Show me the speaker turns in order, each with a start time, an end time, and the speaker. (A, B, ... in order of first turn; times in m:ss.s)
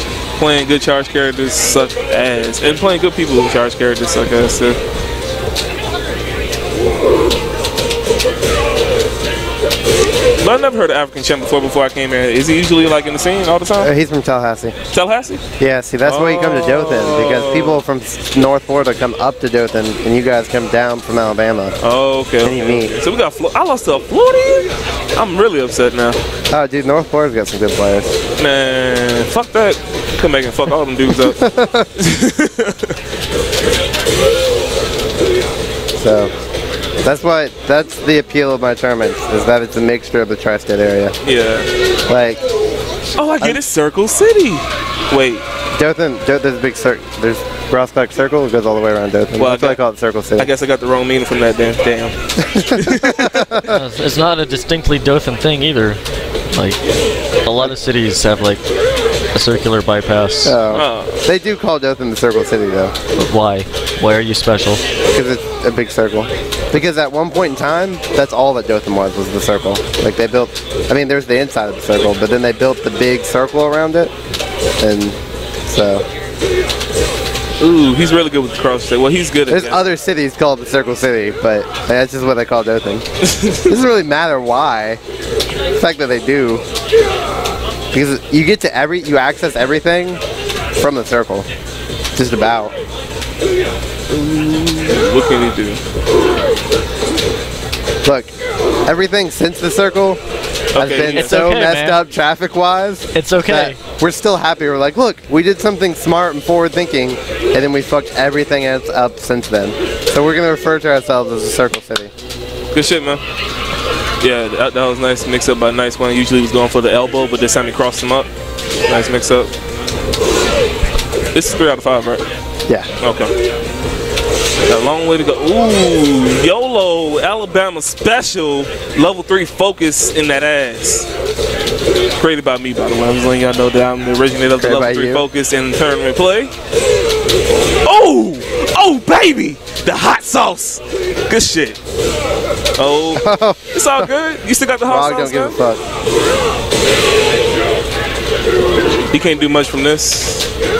0:00.4-0:04.8 A
0:10.4-0:13.9 A
0:13.8-0:14.8 B
0:14.9-0:15.4 A
0:15.6-0:21.8 B
0:16.0-0:17.8 A
0:21.8-0:26.2 A
0:22.4-0:22.9 B
0:26.5-0:28.1 B
0:28.4-0:31.4 A
0:31.2-0:31.9 B
0:32.0-0:33.0 A
0:36.0-0:36.3 B
0:37.0-0:41.1 B
0:41.2-0:41.7 A
0:42.1-0:42.4 B
0:43.2-0:45.4 A
0:45.8-0:50.5 B
0:49.4-0:49.8 A
0:50.4-0:52.2 A
0:52.4-0:53.8 B
0:52.8-0:53.5 A
0:53.6-0:56.8 C
0:57.4-0:58.6 C
0:59.3-1:00.6 C
1:00.4-1:02.9 B
1:00.7-1:01.2 A
1:03.2-1:04.8 C
1:05.1-1:14.1 B
1:14.8-1:16.0 B
1:17.6-1:19.8 A
1:19.5-1:23.0 B
1:23.3-1:23.7 A
1:23.7-1:25.0 B
1:25.8-1:26.6 B
1:27.9-1:30.2 B
1:30.8-1:31.5 B
1:32.1-1:32.7 B
1:34.1-1:35.8 A
1:38.0-1:38.3 B
1:38.9-1:40.2 B
1:40.7-1:41.4 A
1:40.8-1:52.1 B
1:41.1-1:42.0 C
1:43.1-1:43.8 C
1:52.7-1:53.2 A
1:54.2-1:58.3 A
1:58.9-1:59.5 A
2:01.3-2:02.2 A
2:03.0-2:03.3 A
2:04.7-2:11.1 A
2:12.2-2:16.5 A
2:14.6-2:15.2 B
2:17.8-2:21.8 A
2:22.8-2:25.6 A
2:23.1-2:24.1 B
2:24.9-2:25.8 B
2:29.1-2:30.5 A